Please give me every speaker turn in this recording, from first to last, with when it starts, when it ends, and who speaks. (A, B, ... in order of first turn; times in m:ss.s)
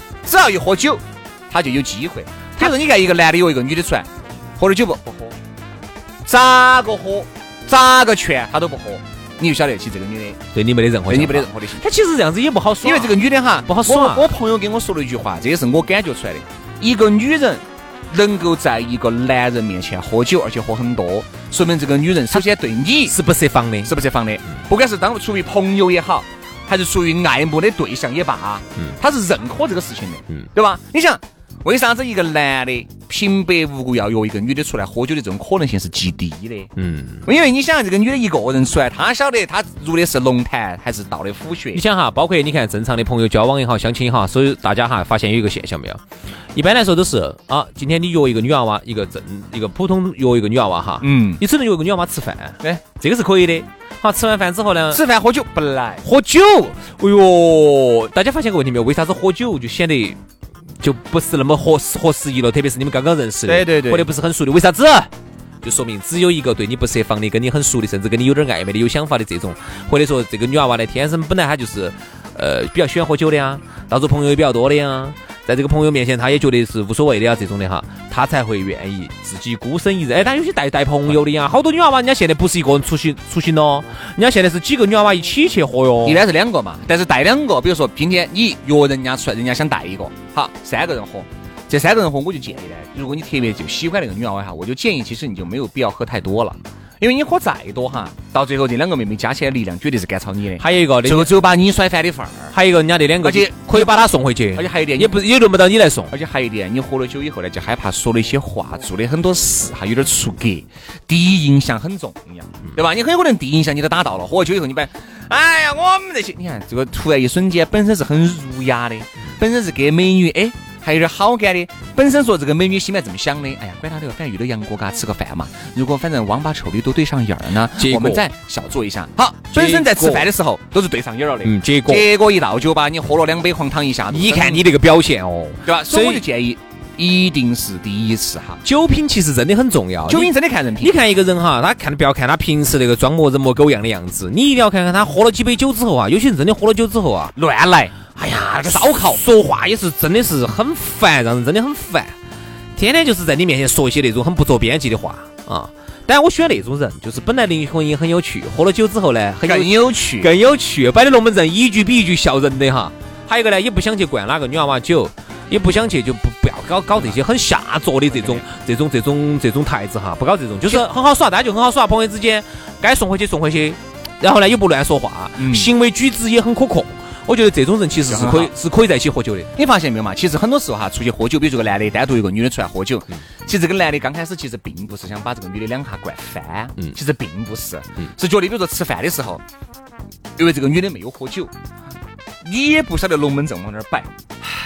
0:00.2-0:05.4 A
0:06.3-0:10.4 A
0:10.5-0:14.3 B
0:11.1-0:11.8 A
0:12.8-0:23.2 A
0:23.1-0:23.9 B
0:23.8-0:36.7 A
0:36.8-0:37.3 B
0:37.2-0:41.8 A
0:41.7-0:46.0 B
0:46.6-0:55.0 B
0:51.0-0:51.4 A
0:54.9-0:56.0 A
0:56.0-1:00.2 B
1:00.8-1:05.1 B
1:03.5-1:04.1 A
1:05.6-1:26.2 B
1:26.0-1:42.5 A
1:40.6-1:41.3 B
1:42.5-1:46.1 B
1:43.2-1:45.2 A
1:46.1-2:14.6 A
2:07.8-2:08.2 B
2:09.5-2:10.3 B
2:11.4-2:12.1 B
2:14.1-2:16.2 B
2:15.6-2:18.6 A
2:18.6-2:27.3 B
2:20.0-2:21.0 A
2:27.4-2:29.2 A
2:28.2-2:32.1 B
2:32.8-2:59.5 B
2:39.4-2:40.3 A
2:55.4-2:55.7 A
2:58.1-2:58.5 A
2:59.6-3:09.4 A
3:10.4-3:11.5 A
3:12.4-3:14.1 A